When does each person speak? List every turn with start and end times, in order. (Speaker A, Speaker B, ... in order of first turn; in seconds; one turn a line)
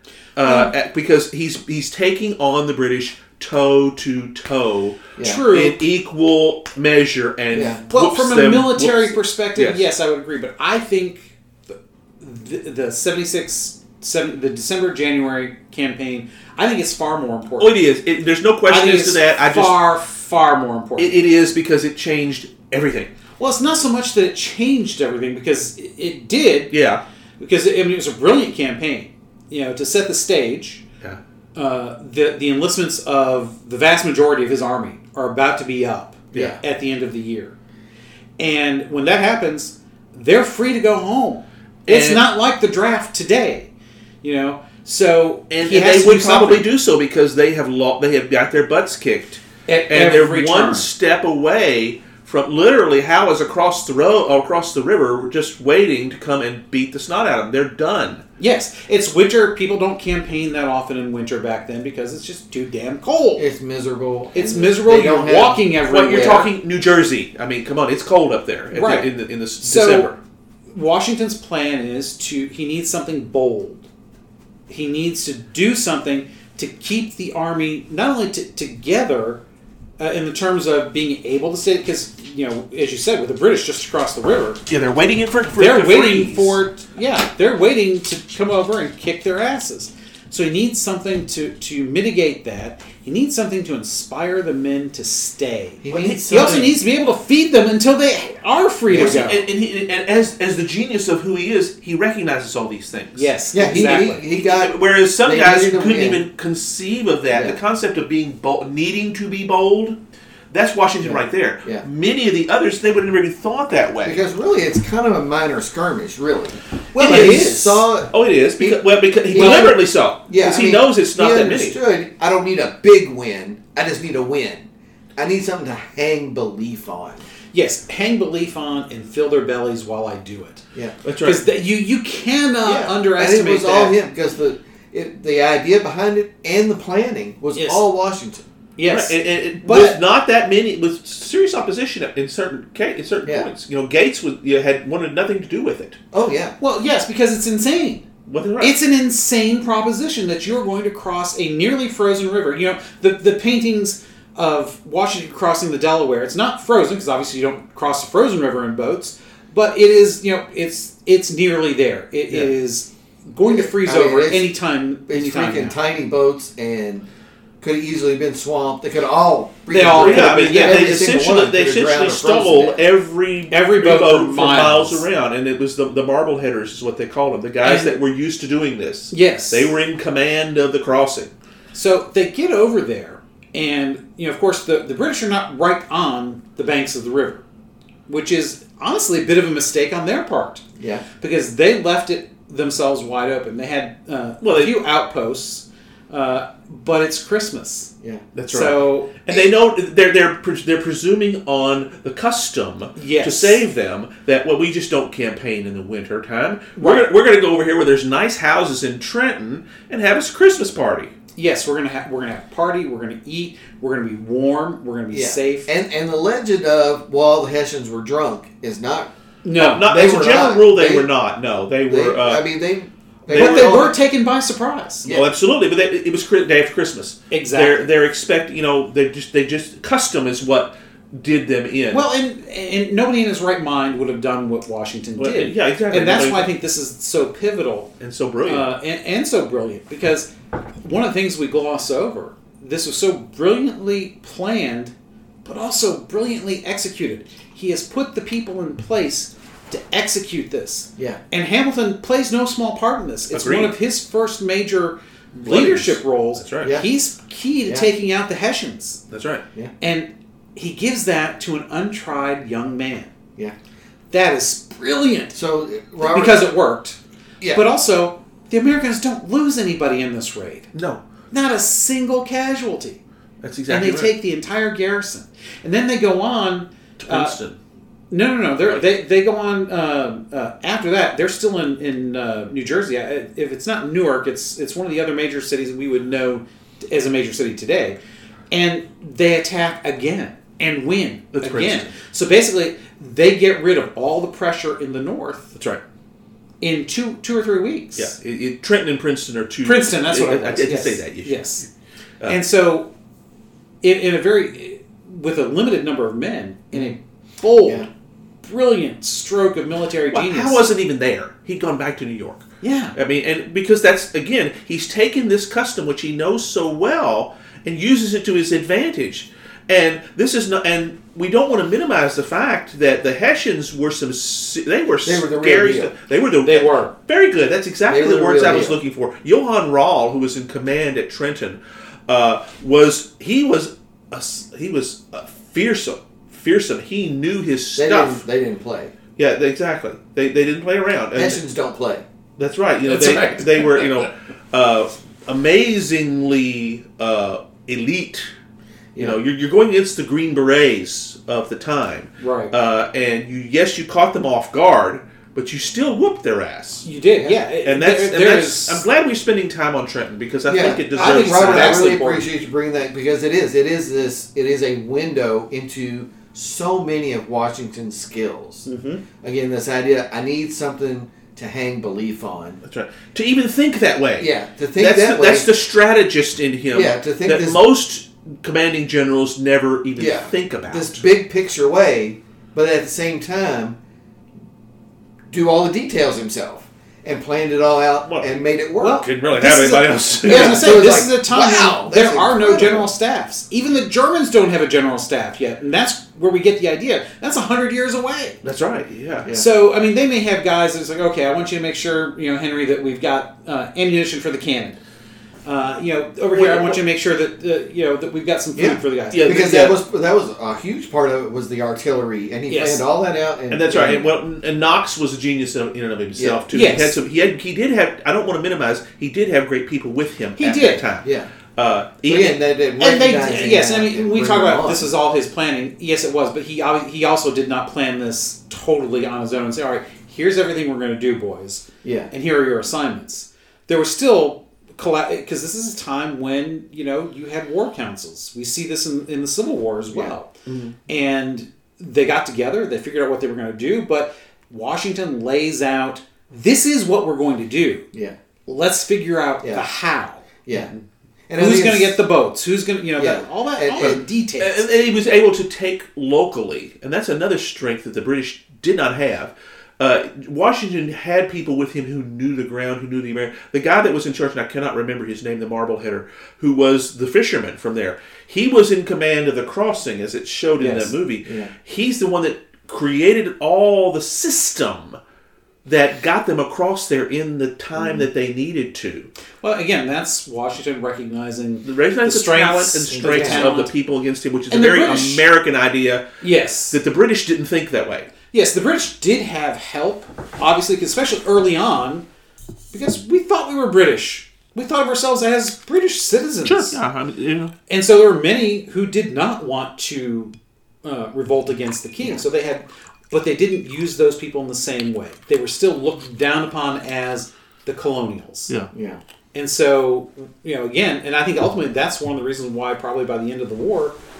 Speaker A: 0.3-9.8
Speaker B: 0.4-0.7
Speaker C: 5.2-5.5
Speaker B: 5.2-5.8
Speaker C: 7.5-7.8
Speaker B: 7.9-17.8
Speaker A: 17.6-19.9
Speaker B: 18.7-21.1
Speaker A: 21.0-23.1
Speaker B: 23.4-26.7
Speaker A: 26.7-27.0
Speaker B: 27.4-30.8
Speaker B: 31.5-37.5
Speaker B: 38.4-43.7
Speaker A: 41.9-42.3
Speaker B: 44.2-46.6
Speaker A: 45.5-58.2
Speaker B: 49.7-50.9
Speaker B: 58.4-63.5
Speaker C: 63.4-66.2
Speaker B: 64.3-66.5
Speaker A: 65.9-70.2
Speaker B: 68.7-69.1
Speaker B: 69.6-70.1
Speaker B: 70.7-73.9
Speaker B: 74.7-79.4
Speaker B: 80.0-84.6
Speaker A: 84.7-86.5
Speaker B: 85.5-99.5
Speaker C: 95.8-96.7
Speaker A: 96.0-96.7
Speaker C: 98.9-99.2
Speaker A: 98.9-110.0
Speaker B: 103.1-104.2
Speaker C: 103.5-106.2
Speaker C: 107.3-107.6
Speaker A: 110.5-114.2
Speaker C: 111.0-111.8
Speaker C: 114.0-127.2
Speaker B: 116.9-117.8
Speaker A: 117.0-121.8
Speaker B: 119.4-119.7
Speaker B: 127.5-130.6
Speaker A: 131.0-131.4
Speaker B: 131.2-134.0
Speaker C: 132.6-138.5
Speaker B: 137.5-137.8
Speaker B: 138.8-140.0
Speaker A: 138.9-146.0
Speaker C: 143.2-143.5
Speaker C: 146.1-146.6
Speaker B: 146.6-148.1
Speaker A: 148.3-148.7
Speaker B: 148.6-165.8
Speaker C: 163.5-164.5
Speaker C: 165.1-167.1
Speaker C: 167.6-172.8
Speaker B: 169.7-171.0
Speaker A: 169.9-181.3
Speaker B: 173.5-175.0
Speaker B: 177.6-177.9
Speaker B: 179.1-179.7
Speaker B: 181.7-187.4
Speaker B: 188.1-190.6
Speaker C: 190.8-191.0
Speaker B: 191.2-197.9
Speaker A: 194.4-194.7
Speaker A: 198.3-211.1
Speaker B: 198.5-199.5
Speaker B: 202.9-203.6
Speaker B: 206.8-207.1
Speaker B: 211.3-215.7
Speaker C: 215.1-219.1
Speaker B: 219.4-219.9
Speaker A: 219.6-222.4
Speaker C: 219.8-221.1
Speaker C: 221.9-223.9
Speaker A: 223.3-223.9
Speaker B: 223.3-225.1
Speaker C: 225.0-225.3
Speaker A: 225.0-232.0
Speaker B: 227.3-227.9
Speaker B: 231.9-237.9
Speaker A: 235.2-236.5
Speaker A: 238.0-238.7
Speaker B: 238.4-240.3
Speaker B: 240.8-244.9
Speaker B: 245.4-259.0
Speaker A: 253.3-253.7
Speaker A: 255.4-256.8
Speaker C: 256.6-256.9
Speaker A: 259.1-259.4
Speaker B: 259.8-263.1
Speaker B: 264.1-265.4
Speaker C: 265.3-266.5
Speaker B: 266.0-267.0
Speaker C: 267.4-267.7
Speaker B: 267.5-270.7
Speaker A: 270.7-271.0
Speaker B: 271.3-273.0
Speaker A: 273.4-274.1
Speaker B: 273.7-277.4
Speaker A: 277.0-277.6
Speaker B: 278.1-288.0
Speaker B: 288.5-295.5
Speaker A: 291.3-291.9
Speaker A: 295.5-295.8
Speaker B: 296.6-298.1
Speaker A: 298.0-301.7
Speaker B: 299.6-301.6
Speaker B: 302.3-302.9
Speaker B: 303.8-307.9
Speaker B: 308.4-310.6
Speaker A: 310.1-338.2
Speaker B: 312.6-312.9
Speaker C: 325.0-325.9
Speaker B: 326.4-326.9
Speaker C: 327.9-328.8
Speaker C: 337.8-338.9
Speaker A: 339.2-341.4
Speaker C: 341.1-342.0
Speaker A: 342.4-348.3
Speaker C: 348.9-349.2
Speaker A: 349.0-356.9
Speaker B: 352.2-352.5
Speaker B: 356.8-358.8
Speaker A: 357.6-362.0
Speaker C: 360.5-368.7
Speaker B: 360.9-362.3
Speaker B: 368.6-369.0
Speaker C: 369.2-372.6
Speaker A: 372.6-381.0
Speaker C: 374.2-375.6
Speaker C: 376.7-377.6
Speaker C: 380.0-383.8
Speaker C: 385.3-389.1
Speaker A: 388.0-388.4
Speaker B: 388.8-398.4
Speaker A: 389.0-390.9
Speaker C: 390.2-392.9
Speaker A: 398.4-399.3
Speaker B: 399.3-404.8
Speaker B: 405.4-409.4
Speaker A: 406.3-406.8
Speaker C: 408.5-414.1
Speaker A: 409.1-409.8
Speaker B: 412.5-412.8
Speaker A: 413.5-422.4
Speaker C: 416.2-416.4
Speaker B: 416.5-417.0
Speaker B: 420.4-420.8
Speaker C: 421.0-421.3
Speaker C: 422.0-424.9
Speaker B: 422.8-440.3
Speaker C: 431.8-432.1
Speaker A: 440.5-440.7
Speaker B: 440.9-447.9
Speaker B: 448.4-450.8
Speaker C: 449.4-449.7
Speaker C: 450.4-450.7
Speaker C: 451.3-452.0
Speaker B: 451.4-454.6
Speaker C: 453.0-454.0
Speaker A: 453.8-475.0
Speaker B: 470.6-470.9
Speaker C: 471.2-471.5
Speaker A: 475.6-479.1
Speaker C: 477.8-478.1
Speaker B: 479.4-483.7
Speaker A: 481.6-486.0
Speaker C: 482.9-483.5
Speaker B: 484.5-485.2
Speaker B: 486.2-486.8
Speaker A: 486.7-488.1
Speaker B: 488.3-492.0
Speaker B: 492.7-496.8
Speaker A: 496.4-497.5
Speaker B: 497.7-508.5
Speaker C: 508.7-509.0
Speaker B: 509.3-514.0